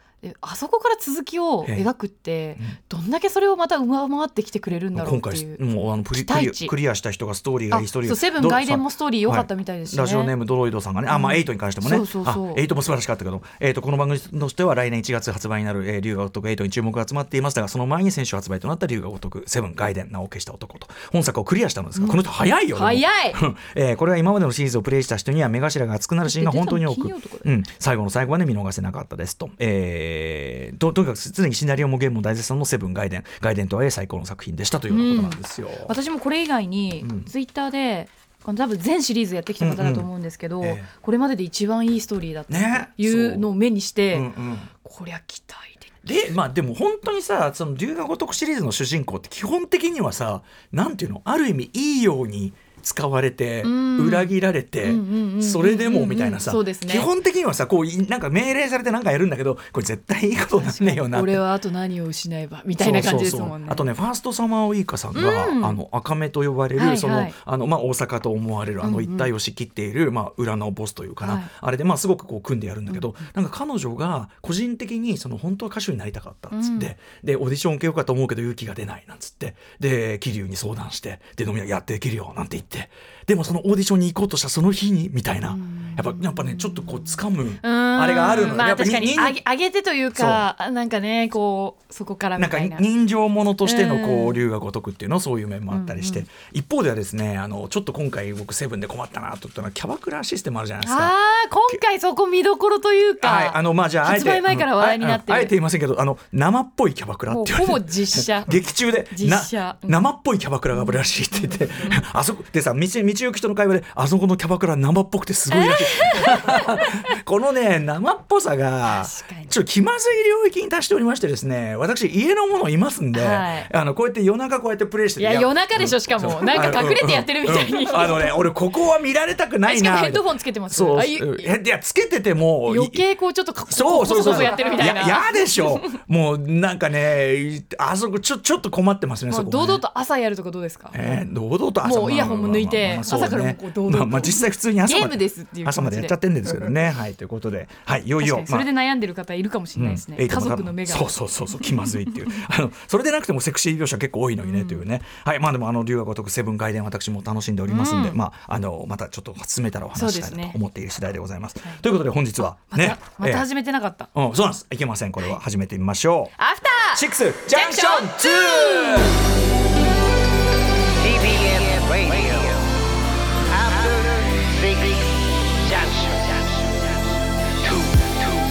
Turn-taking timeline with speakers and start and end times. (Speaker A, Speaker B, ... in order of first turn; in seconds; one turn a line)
Speaker A: 0.2-6.8
Speaker B: 1.6-1.9
Speaker B: 4.9-35.9
Speaker A: 7.7-10.3
Speaker A: 11.1-12.6
Speaker A: 21.9-23.4
Speaker A: 26.2-27.5
Speaker A: 34.9-44.3
Speaker B: 37.0-37.3
Speaker B: 39.6-40.1
Speaker B: 40.6-40.9
Speaker B: 42.5-43.5
Speaker B: 44.1-44.7
Speaker A: 44.8-45.9
Speaker B: 46.0-61.5
Speaker A: 53.6-57.1
Speaker A: 60.5-63.9
Speaker B: 62.8-89.4
Speaker A: 65.1-65.8
Speaker A: 66.8-67.3
Speaker A: 68.8-69.3
Speaker A: 71.2-71.5
Speaker A: 76.5-76.9
Speaker A: 85.5-92.8
Speaker B: 90.1-90.5
Speaker B: 92.3-101.1
Speaker A: 93.6-94.4
Speaker A: 95.7-96.2
Speaker A: 100.8-105.5
Speaker B: 103.2-133.1
Speaker A: 107.3-108.6
Speaker A: 109.1-110.0
Speaker A: 115.5-117.0
Speaker A: 118.9-119.5
Speaker A: 123.1-123.7
Speaker A: 125.2-128.5
Speaker A: 129.7-131.5
Speaker A: 132.7-135.5
Speaker B: 133.7-139.8
Speaker A: 139.3-141.0
Speaker B: 140.9-148.7
Speaker A: 141.8-146.1
Speaker A: 148.2-152.0
Speaker B: 149.8-163.5
Speaker A: 154.4-154.8
Speaker A: 157.7-158.2
Speaker A: 159.9-160.6
Speaker A: 162.7-164.1
Speaker B: 164.1-166.4
Speaker A: 166.4-169.2
Speaker B: 166.9-169.2
Speaker C: 171.3-172.4
Speaker C: 173.7-174.5
Speaker C: 177.8-178.1